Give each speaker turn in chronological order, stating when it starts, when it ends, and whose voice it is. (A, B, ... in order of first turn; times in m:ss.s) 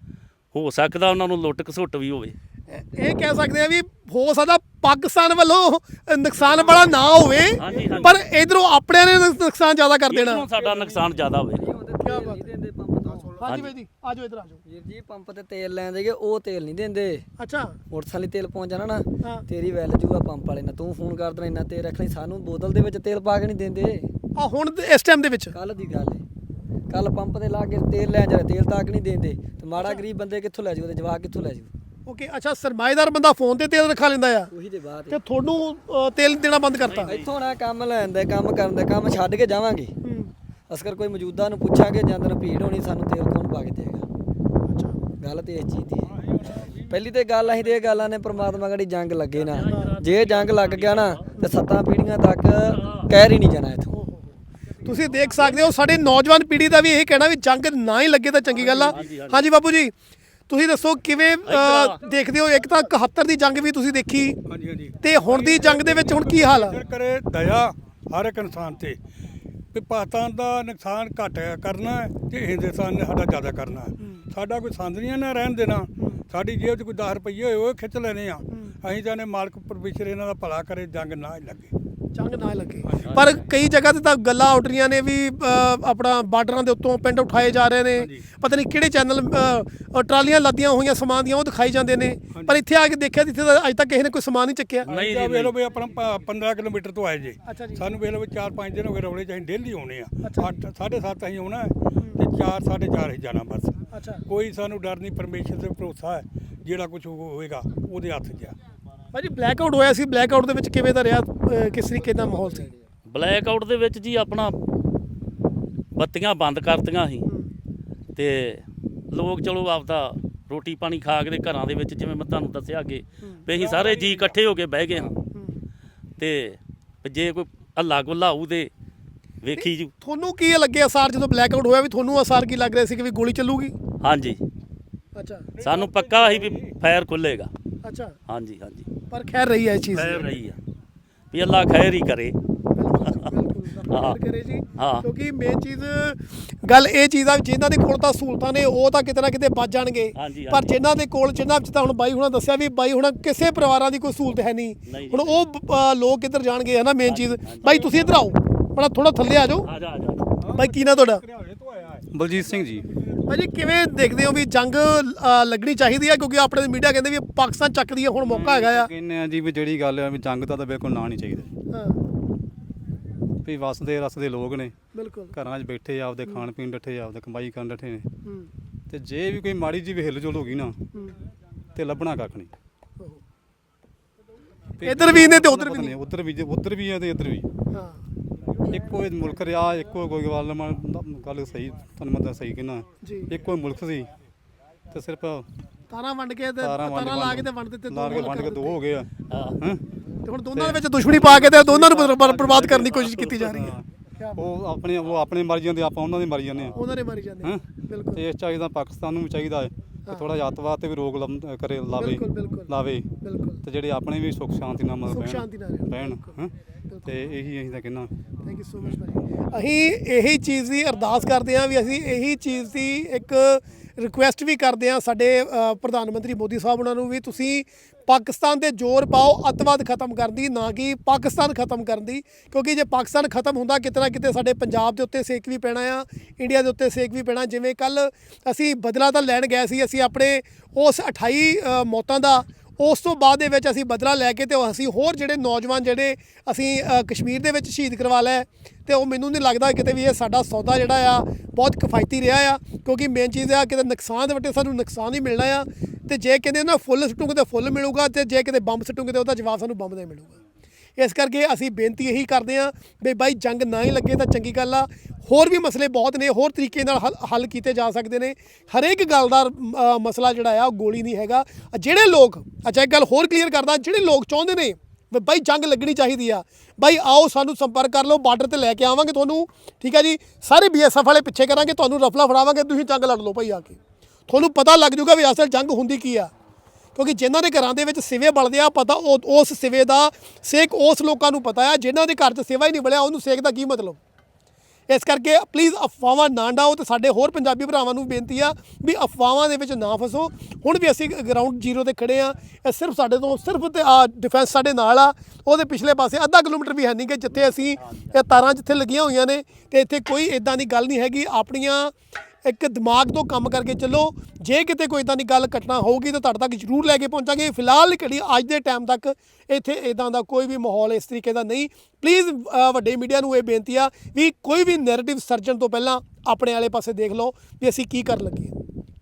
0:00.5-0:02.4 A
0:02.7-0:10.5 B
0:06.4-0:06.9 C
0:07.6-0:08.2 A
0:07.6-0:08.2 D
0:10.1-0:11.7 A
0:10.6-0:11.1 D
0:11.5-0:13.4 C
0:12.0-0:12.5 B
0:13.2-0:14.6 B
0:13.4-0:13.7 A
0:14.7-0:17.3 C
0:17.4-0:17.8 B
0:17.9-0:24.1 C
0:24.4-0:25.5 B
0:25.5-0:26.2 C
0:26.9-0:31.7 C
0:29.8-0:30.0 B
0:32.1-0:34.5 B
0:34.5-0:35.2 C
0:35.1-0:37.2 B
0:36.8-0:37.6 A
0:37.1-0:40.0 C
0:40.0-0:40.3 B
0:40.7-0:44.1 C
0:44.7-0:45.0 B
0:45.2-0:46.1 C
0:46.0-0:48.6 D
0:46.9-0:53.9 C
0:49.3-0:51.3 A
0:49.7-0:50.0 B
0:52.7-0:53.1 A
0:53.9-0:59.9 B
0:58.6-0:59.0 D
0:58.8-0:59.5 A
1:00.5-1:04.4 B
1:01.5-1:02.0 A
1:04.5-1:09.0 D
1:05.0-1:06.8 B
1:09.7-1:21.7 D
1:14.0-1:14.3 B
1:18.5-1:18.8 B
1:22.2-1:34.9 B
1:22.8-1:23.4 D
1:23.0-1:23.4 A
1:28.0-1:28.3 D
1:32.3-1:32.6 D
1:34.8-1:48.6 D
1:34.9-1:35.5 A
1:37.4-1:37.9 B
1:40.2-1:40.5 B
1:43.9-1:44.2 B
1:49.1-1:52.7 B
1:53.1-1:54.6 A
1:55.9-1:57.3 A
1:58.2-2:05.1 A
2:03.5-2:04.4 D
2:05.3-2:05.6 B
2:06.2-2:08.7 A
2:09.4-2:09.9 A
2:09.6-2:13.8 B
2:14.0-2:14.4 A
2:15.2-2:15.5 B
2:15.6-2:16.8 D
2:15.6-2:17.5 A
2:17.8-2:18.2 B
2:18.3-2:18.9 A
2:19.1-2:20.3 B
2:19.9-2:20.6 A
2:21.3-2:22.4 A
2:22.8-2:39.7 B
2:23.0-2:23.3 A
2:23.9-2:24.2 A
2:24.8-2:25.0 A
2:30.2-2:30.8 A
2:34.9-2:35.3 A
2:37.0-2:37.8 A
2:37.6-2:38.3 D
2:39.6-2:40.3 A
2:40.4-2:43.6 D
2:40.5-2:41.2 B
2:42.1-2:42.8 E
2:43.3-2:48.9 B
2:48.2-2:51.5 E
2:51.7-2:52.0 B
2:53.4-2:54.7 E
2:54.9-2:55.4 B
2:55.3-2:58.1 E
2:58.2-2:58.5 B
2:58.9-3:00.8 E
3:01.8-3:02.5 E
3:04.8-3:07.5 E
3:04.8-3:06.0 B
3:07.7-3:08.0 B
3:08.7-3:14.1 E
3:13.0-3:13.3 B
3:14.9-3:15.5 E
3:15.9-3:18.8 B
3:16.6-3:19.8 E
3:19.3-3:19.6 A
3:20.2-3:24.5 B
3:20.6-3:23.9 E
3:24.4-3:26.8 E
3:26.8-3:28.2 B
3:27.4-3:33.1 E
3:32.0-3:33.6 B
3:33.6-3:36.5 E
3:35.1-3:37.2 B
3:37.1-3:38.1 E
3:38.4-4:20.4 B
4:21.0-4:46.3 B
4:47.0-4:54.0 B
4:54.9-5:28.6 B
5:07.4-5:08.2 A